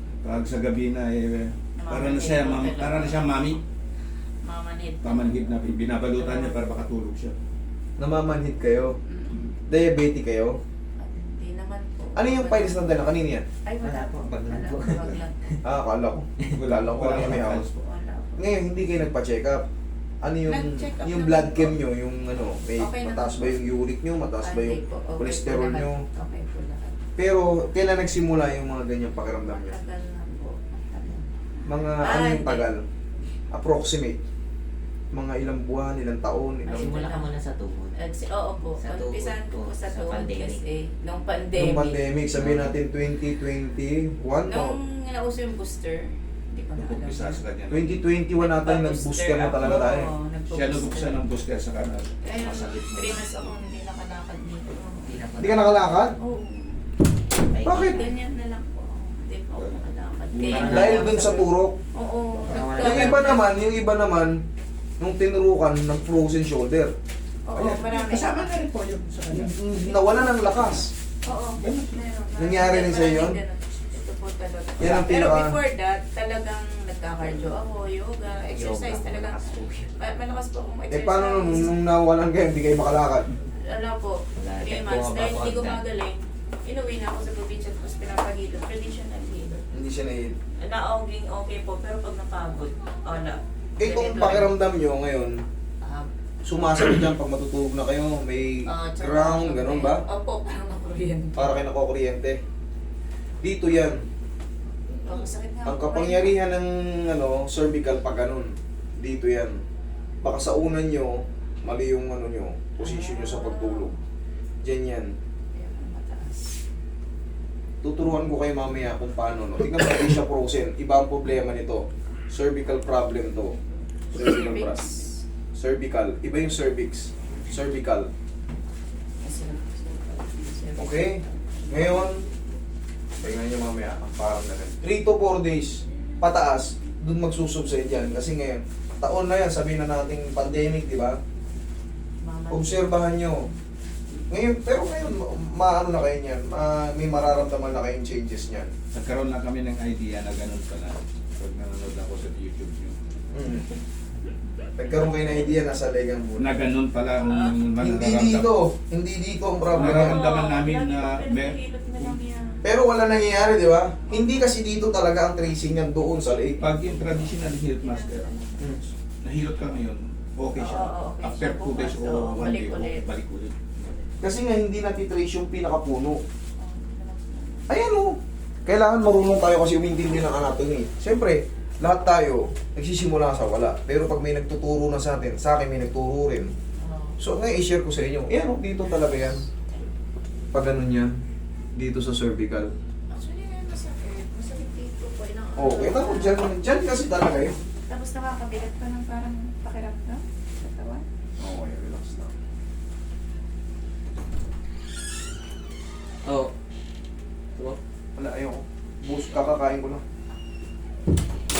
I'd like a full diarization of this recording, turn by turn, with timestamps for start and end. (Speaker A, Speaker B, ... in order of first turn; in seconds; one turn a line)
Speaker A: 0.2-3.6
Speaker B: 1.8-3.2
Speaker B: 4.4-5.5
Speaker A: 5.0-7.3
Speaker B: 6.2-6.6
Speaker C: 8.0-8.9
Speaker B: 9.0-9.5
Speaker C: 9.7-10.6
Speaker B: 11.0-15.4
Speaker C: 12.2-13.4
Speaker D: 13.8-15.2
Speaker C: 15.6-17.7
Speaker A: 16.5-17.9
Speaker B: 17.8-18.4
Speaker C: 18.4-19.6
Speaker C: 20.2-26.0
Speaker B: 20.4-21.8
Speaker B: 22.8-23.6
Speaker B: 24.4-27.0
Speaker C: 27.2-29.8
Speaker B: 29.2-31.2
Speaker C: 31.6-32.8
Speaker B: 31.9-32.7
Speaker C: 33.5-34.2
Speaker C: 35.1-37.0
Speaker B: 36.6-37.3
Speaker D: 36.7-38.0
Speaker B: 37.9-42.0
Speaker D: 38.8-40.6
Speaker C: 41.5-44.7
Speaker D: 42.3-42.7
Speaker B: 44.5-47.4
Speaker A: 46.8-48.1
Speaker C: 47.7-50.1
Speaker B: 48.3-51.2
Speaker A: 50.5-52.1
Speaker B: 52.2-55.1
Speaker D: 52.3-53.2
Speaker D: 55.0-56.0
Speaker C: 55.4-56.2
Speaker B: 56.2-56.8
Speaker D: 57.5-58.1
Speaker C: 57.6-58.0
Speaker B: 57.7-63.5
Speaker A: 59.5-61.1
Speaker D: 60.5-61.0
Speaker C: 60.5-61.8
Speaker A: 62.4-62.8
Speaker D: 62.4-63.4
Speaker C: 62.8-64.4
Speaker C: 65.0-66.9
Speaker B: 67.5-68.5
Speaker A: 67.5-69.5
Speaker C: 69.3-70.9
Speaker B: 69.9-70.4
Speaker B: 71.2-81.7
Speaker A: 71.6-72.0
Speaker C: 72.3-73.4
Speaker C: 74.8-75.5
Speaker D: 78.5-79.9
Speaker C: 80.9-83.3
Speaker B: 83.6-89.6
Speaker D: 84.4-85.8
Speaker C: 89.7-90.3
Speaker B: 90.6-94.5
Speaker C: 93.8-95.4
Speaker B: 95.8-96.1
Speaker C: 96.5-100.0
Speaker B: 98.7-101.6
Speaker C: 101.4-102.4
Speaker C: 103.4-104.0
Speaker B: 104.9-106.3
Speaker C: 105.7-109.5
Speaker C: 110.2-113.9
Speaker B: 112.8-114.0
Speaker C: 114.6-115.1
Speaker B: 115.5-116.5
Speaker C: 117.8-123.6
Speaker B: 124.1-125.2
Speaker C: 124.1-124.9
Speaker C: 125.5-128.1
Speaker B: 129.2-131.3
Speaker C: 130.8-132.2
Speaker C: 133.2-141.2
Speaker B: 142.2-143.4
Speaker C: 142.5-143.4
Speaker C: 144.3-148.7
Speaker A: 148.9-152.9
Speaker C: 153.3-153.7
Speaker C: 154.8-156.6
Speaker A: 156.4-158.5
Speaker B: 157.2-157.6
Speaker C: 157.8-160.2
Speaker A: 159.7-162.1
Speaker B: 159.7-162.6
Speaker C: 162.6-166.7
Speaker A: 166.6-168.3
Speaker B: 167.8-168.7
Speaker C: 168.6-168.8
Speaker A: 169.2-174.0
Speaker B: 170.5-173.1
Speaker C: 174.2-176.2
Speaker B: 176.6-177.8
Speaker C: 177.7-186.5
Speaker B: 186.8-187.2
Speaker C: 187.2-189.5
Speaker B: 189.5-189.8
Speaker C: 190.5-191.1
Speaker C: 191.7-192.7
Speaker B: 193.1-196.4
Speaker C: 195.6-197.5
Speaker B: 197.9-201.0
Speaker C: 201.4-202.3
Speaker D: 206.2-206.5
Speaker C: 208.2-210.0